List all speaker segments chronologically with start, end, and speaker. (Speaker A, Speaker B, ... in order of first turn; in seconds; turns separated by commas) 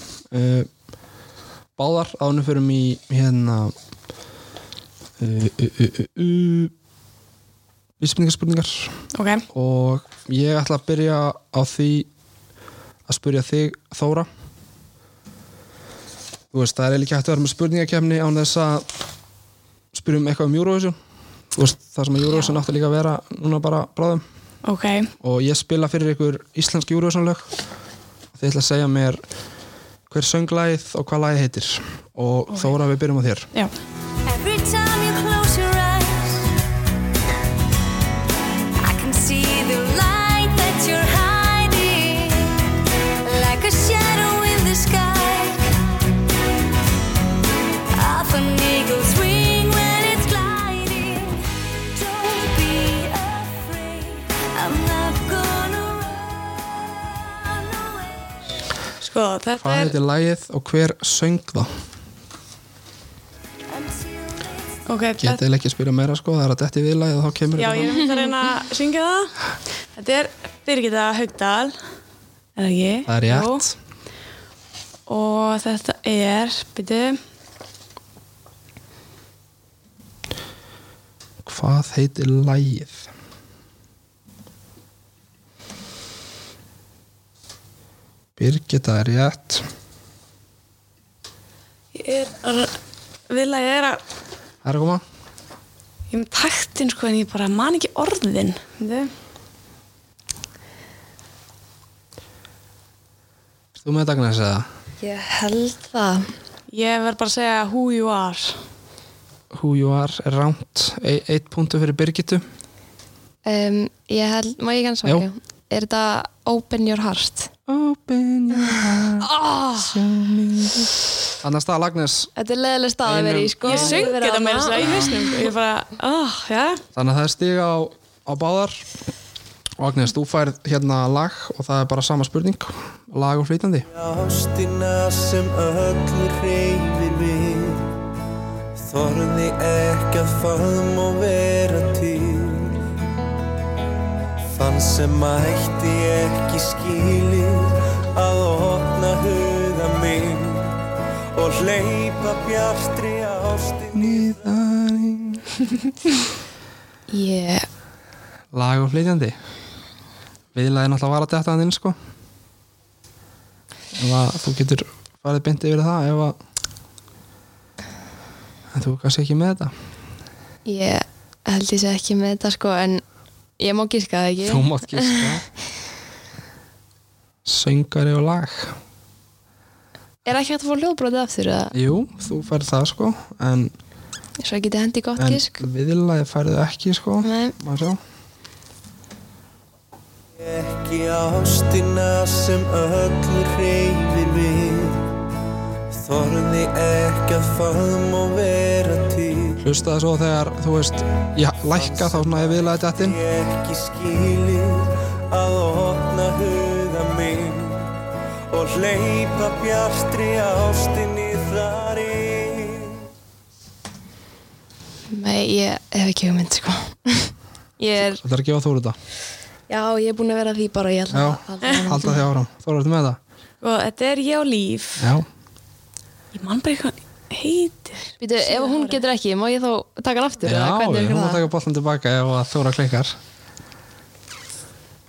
Speaker A: 0.3-0.7, Speaker A: 1.8-3.7, Speaker A: 5.2-6.7, Speaker A: 8.0-8.9, Speaker B: 9.1-9.4, Speaker A: 9.5-12.1, Speaker A: 13.1-14.3, Speaker A: 16.5-18.9, Speaker A: 19.9-20.9, Speaker A: 21.5-24.2, Speaker B: 24.6-25.1, Speaker A: 25.2-27.5, Speaker A: 28.4-29.2, Speaker A: 30.1-33.5, Speaker C: 34.2-36.5, Speaker C: 38.8-42.6, Speaker C: 43.2-45.8, Speaker C: 47.9-51.4, Speaker C: 51.9-58.5, Speaker B: 59.0-59.9, Speaker A: 59.6-61.7, Speaker C: 63.7-64.8, Speaker B: 64.9-65.4, Speaker A: 65.2-68.0, Speaker B: 67.6-69.3, Speaker B: 70.0-71.7, Speaker B: 72.5-73.6, Speaker A: 73.1-73.7, Speaker B: 75.1-77.2, Speaker A: 81.4-83.1, Speaker A: 88.4-89.7, Speaker B: 91.9-92.7, Speaker B: 93.3-94.0, Speaker A: 94.6-95.0, Speaker B: 96.1-99.1, Speaker A: 103.8-104.7, Speaker D: 105.0-106.3, Speaker B: 106.7-108.6, Speaker A: 109.5-112.4, Speaker D: 113.4-117.5, Speaker A: 117.7-122.3, Speaker B: 119.3-119.8, Speaker D: 122.3-125.5, Speaker A: 123.0-124.1, Speaker B: 123.6-126.8, Speaker A: 124.8-125.1, Speaker A: 126.9-128.8, Speaker A: 129.8-133.9, Speaker E: 133.9-137.9, Speaker E: 138.8-142.8, Speaker E: 144.5-154.4, Speaker A: 153.9-155.4, Speaker D: 157.1-157.7, Speaker A: 158.5-159.3, Speaker A: 160.5-161.9, Speaker A: 163.9-166.3, Speaker A: 168.7-169.7, Speaker D: 170.7-173.0, Speaker D: 173.6-175.4, Speaker A: 174.4-175.4, Speaker A: 177.4-178.8, Speaker D: 180.2-181.7, Speaker A: 181.7-183.7, Speaker D: 184.4-185.6, Speaker A: 185.2-188.0, Speaker D: 187.2-187.6, Speaker E: 190.4-195.1, Speaker E: 195.9-199.6, Speaker A: 199.6-203.2, Speaker E: 201.7-207.9, Speaker E: 208.5-213.1, Speaker D: 215.1-218.2, Speaker A: 218.0-218.9, Speaker D: 219.7-222.2, Speaker A: 221.1-223.2, Speaker B: 223.6-225.1, Speaker A: 225.0-225.2, Speaker B: 226.3-229.0, Speaker D: 228.2-231.4, Speaker A: 230.4-233.2